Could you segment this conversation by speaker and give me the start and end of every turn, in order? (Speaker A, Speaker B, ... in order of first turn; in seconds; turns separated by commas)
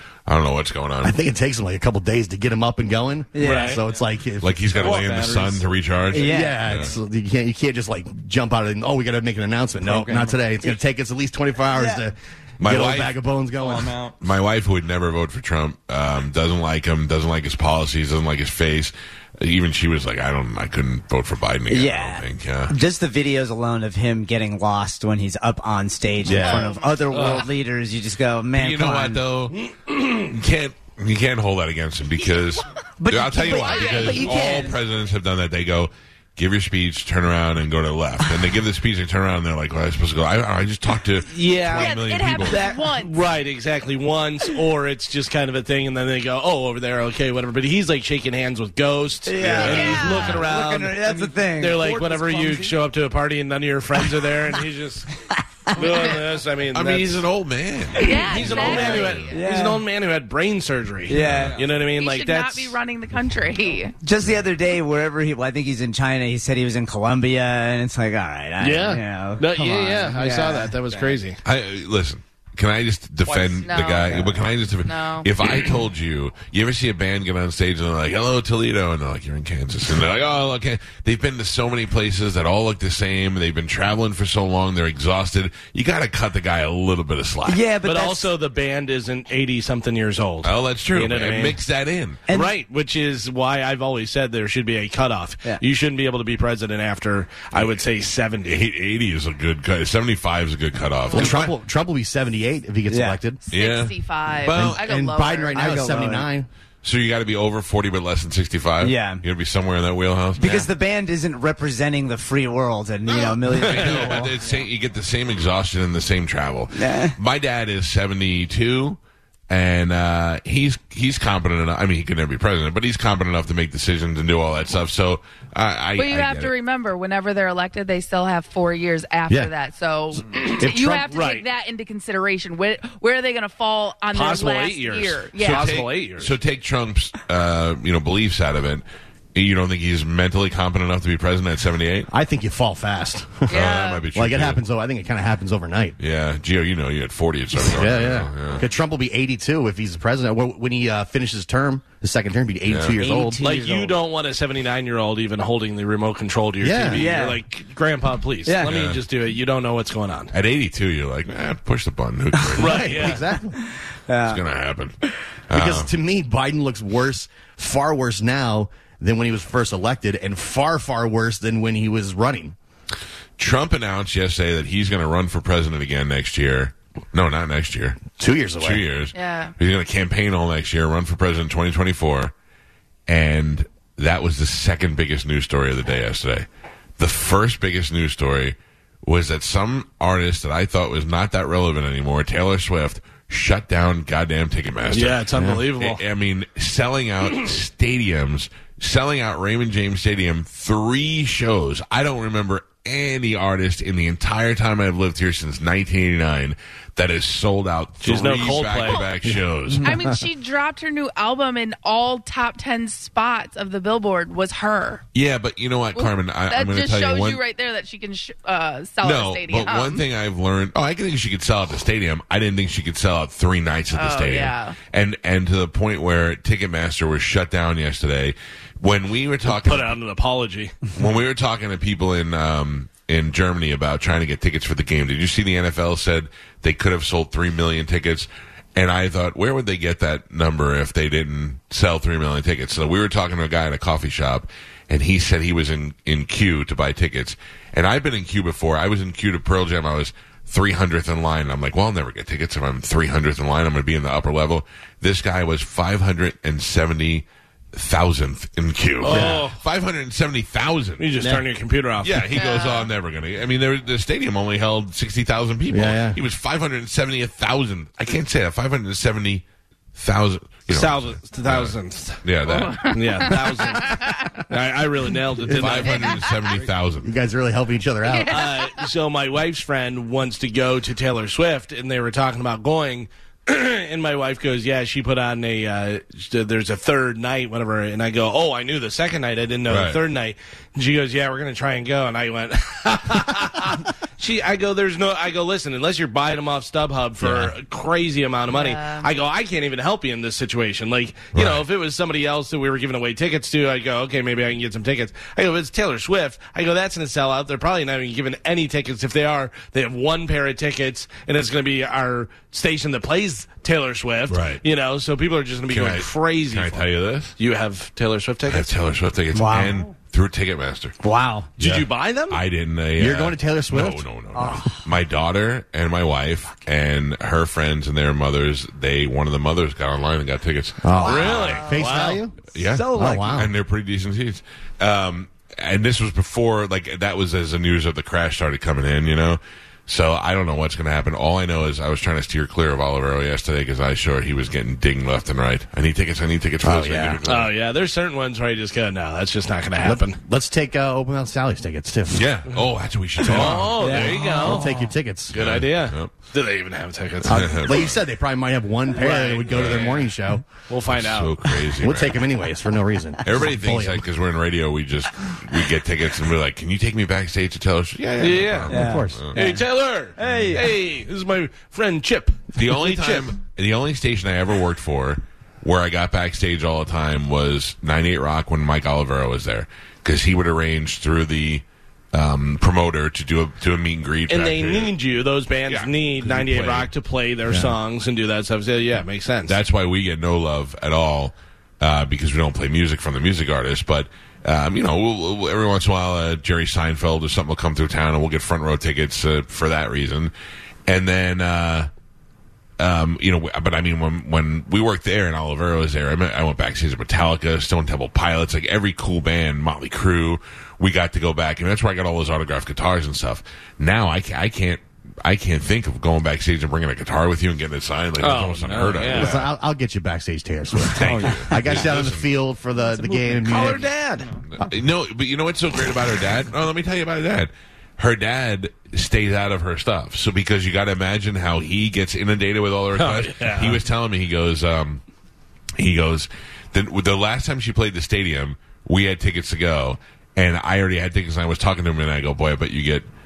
Speaker A: 0.3-1.2, Speaker B: 1.0-5.1, Speaker C: 3.3-3.8, Speaker D: 3.4-3.8, Speaker A: 4.4-7.0, Speaker E: 4.7-6.1, Speaker C: 6.1-6.6, Speaker B: 6.1-14.0, Speaker E: 9.8-10.4, Speaker C: 11.7-12.0, Speaker A: 12.6-13.2, Speaker E: 13.6-14.2, Speaker A: 14.2-22.8, Speaker C: 21.7-29.2, Speaker B: 26.2-26.8, Speaker F: 26.3-26.8, Speaker D: 27.1-27.5, Speaker A: 28.5-29.6, Speaker D: 29.6-30.3, Speaker A: 30.1-42.6, Speaker C: 33.0-34.7, Speaker F: 33.5-34.7, Speaker D: 41.3-55.1, Speaker F: 41.6-43.1, Speaker C: 49.3-52.8, Speaker F: 49.7-50.4, Speaker C: 55.2-56.1, Speaker D: 55.7-57.3, Speaker A: 56.7-59.3, Speaker F: 58.0-59.4, Speaker C: 58.0-59.8, Speaker D: 58.1-62.8, Speaker C: 61.1-61.6, Speaker A: 61.1-61.6, Speaker E: 61.3-61.8, Speaker F: 61.9-64.0, Speaker C: 64.0-70.9, Speaker D: 68.6-71.4, Speaker A: 71.4-87.6, Speaker F: 73.6-74.2, Speaker C: 74.0-74.4, Speaker F: 74.8-75.3, Speaker C: 87.5-88.3, Speaker D: 87.8-91.6, Speaker A: 90.4-92.2, Speaker C: 92.3-92.5, Speaker D: 92.3-98.6, Speaker A: 98.5-101.5, Speaker F: 101.1-101.4, Speaker B: 101.1-103.4, Speaker C: 102.9-103.2, Speaker F: 103.4-105.9, Speaker A: 103.5-104.8, Speaker B: 104.5-106.5, Speaker C: 105.5-106.3, Speaker A: 106.8-110.6, Speaker C: 108.8-109.2, Speaker C: 110.4-114.3, Speaker A: 113.5-119.0, Speaker D: 113.7-114.0, Speaker C: 116.7-117.2, Speaker A: 119.5-126.5, Speaker F: 126.0-135.7, Speaker B: 130.1-131.1, Speaker D: 131.1-131.4, Speaker D: 134.1-136.3, Speaker A: 135.4-138.8, Speaker A: 139.3-142.1, Speaker B: 142.1-143.6, Speaker F: 143.5-144.1, Speaker A: 143.5-144.6, Speaker B: 144.1-146.0, Speaker A: 146.0-148.7, Speaker B: 147.6-153.4, Speaker A: 152.7-153.0, Speaker C: 153.0-154.0, Speaker D: 153.4-160.3, Speaker B: 156.6-157.1, Speaker C: 156.9-157.4, Speaker C: 158.5-158.8, Speaker A: 158.6-159.0, Speaker A: 160.3-163.2, Speaker B: 162.6-163.6, Speaker D: 162.6-163.2, Speaker C: 163.7-164.4, Speaker A: 164.2-165.9, Speaker B: 165.5-172.6, Speaker A: 173.4-178.0, Speaker B: 178.2-178.8, Speaker A: 178.6-182.3, Speaker F: 179.1-179.5, Speaker A: 183.1-186.5, Speaker A: 187.0-209.9, Speaker D: 194.9-196.0, Speaker B: 195.4-195.6, Speaker D: 208.0-209.1, Speaker B: 209.2-210.3, Speaker F: 209.8-215.0, Speaker A: 215.1-217.4, Speaker F: 215.9-220.0, Speaker A: 219.0-229.9, Speaker F: 223.9-224.8, Speaker D: 229.5-230.9, Speaker A: 230.9-261.1, Speaker D: 259.0-259.6, Speaker B: 259.1-259.4, Speaker D: 261.0-262.4, Speaker A: 262.0-273.0, Speaker F: 262.3-262.9, Speaker B: 265.7-266.2, Speaker D: 270.7-276.1, Speaker F: 272.5-274.4, Speaker B: 275.4-276.1, Speaker A: 275.5-277.1, Speaker F: 275.8-276.4, Speaker B: 277.0-278.5, Speaker F: 278.0-278.8, Speaker D: 278.3-318.8, Speaker A: 289.7-290.0, Speaker F: 298.5-299.1, Speaker A: 301.3-301.6, Speaker A: 314.3-314.6, Speaker A: 315.7-317.3, Speaker A: 318.5-320.9, Speaker C: 319.3-319.8, Speaker C: 321.0-321.5, Speaker D: 321.6-322.4, Speaker B: 321.6-321.9, Speaker A: 321.6-331.7, Speaker B: 323.0-324.0, Speaker C: 324.4-324.8, Speaker B: 330.8-332.4, Speaker C: 331.0-331.9, Speaker D: 331.0-332.2, Speaker A: 332.5-347.5, Speaker C: 332.6-333.3, Speaker B: 332.9-333.5, Speaker B: 346.6-347.2, Speaker D: 347.3-350.2, Speaker B: 349.8-352.3, Speaker A: 352.1-354.3, Speaker B: 353.2-355.4, Speaker D: 353.3-354.7, Speaker C: 353.8-354.9, Speaker D: 355.3-358.0, Speaker A: 355.3-356.1, Speaker A: 357.2-358.0, Speaker B: 357.3-360.5, Speaker D: 358.9-361.4, Speaker A: 359.5-360.0, Speaker A: 360.9-362.3, Speaker B: 361.8-364.0, Speaker A: 363.2-369.4, Speaker D: 368.2-373.4, Speaker C: 368.7-369.6, Speaker B: 368.7-369.3, Speaker C: 370.1-370.7, Speaker A: 372.6-384.9, Speaker D: 384.3-389.6, Speaker A: 385.7-386.9, Speaker B: 387.5-387.8, Speaker A: 389.5-400.3, Speaker A: 400.9-401.9, Speaker A: 402.8-419.5, Speaker D: 418.2-419.5, Speaker B: 419.1-423.9, Speaker A: 420.9-422.3, Speaker E: 421.1-421.4, Speaker D: 423.5-424.4, Speaker A: 424.5-435.0, Speaker D: 432.9-433.8, Speaker A: 435.8-443.1